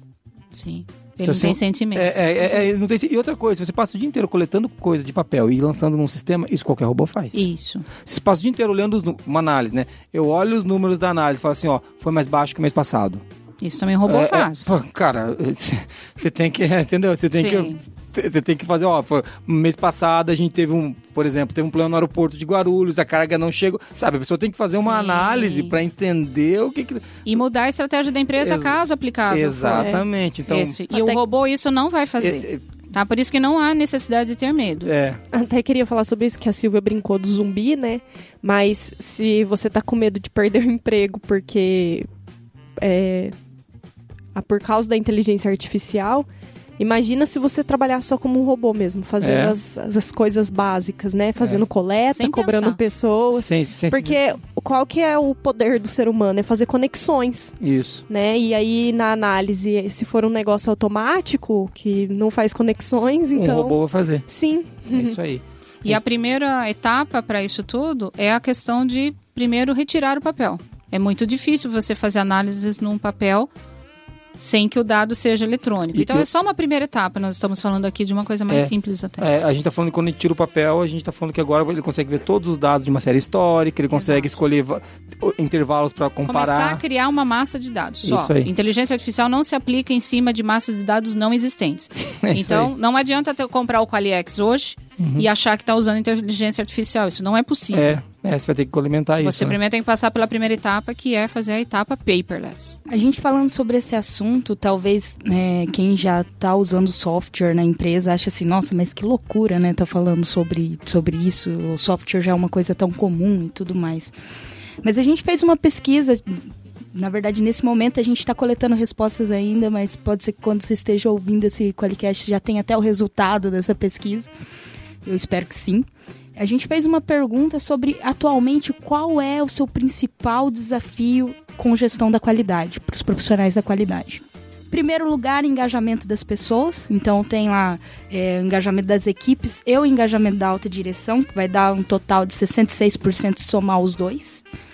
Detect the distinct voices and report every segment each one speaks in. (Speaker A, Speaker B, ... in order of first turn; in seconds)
Speaker A: 0.5-2.7, 7.3-7.9, 13.6-14.7, 17.3-17.8, 24.7-25.8, 27.2-34.9, 52.1-52.8, 65.8-73.5, 74.4-79.2, 83.9-84.3, 86.3-98.0, 99.2-102.8
Speaker B: 1.2-7.4, 8.0-13.2, 14.1-27.2, 28.4-28.8, 29.3-31.2, 32.2-32.6, 34.9-35.2, 49.2-49.6, 51.4-51.6, 53.3-54.2, 57.6-58.0, 63.3-64.2, 64.9-66.0, 75.9-76.3, 78.5-86.8, 88.0-88.5, 92.2-92.7, 95.0-95.3, 97.7-99.6
Speaker C: 29.7-30.0, 35.3-42.1, 42.8-43.3, 44.3-46.3, 46.8-57.6, 58.1-65.2
Speaker D: 102.9-114.1, 114.8-124.3, 125.0-144.4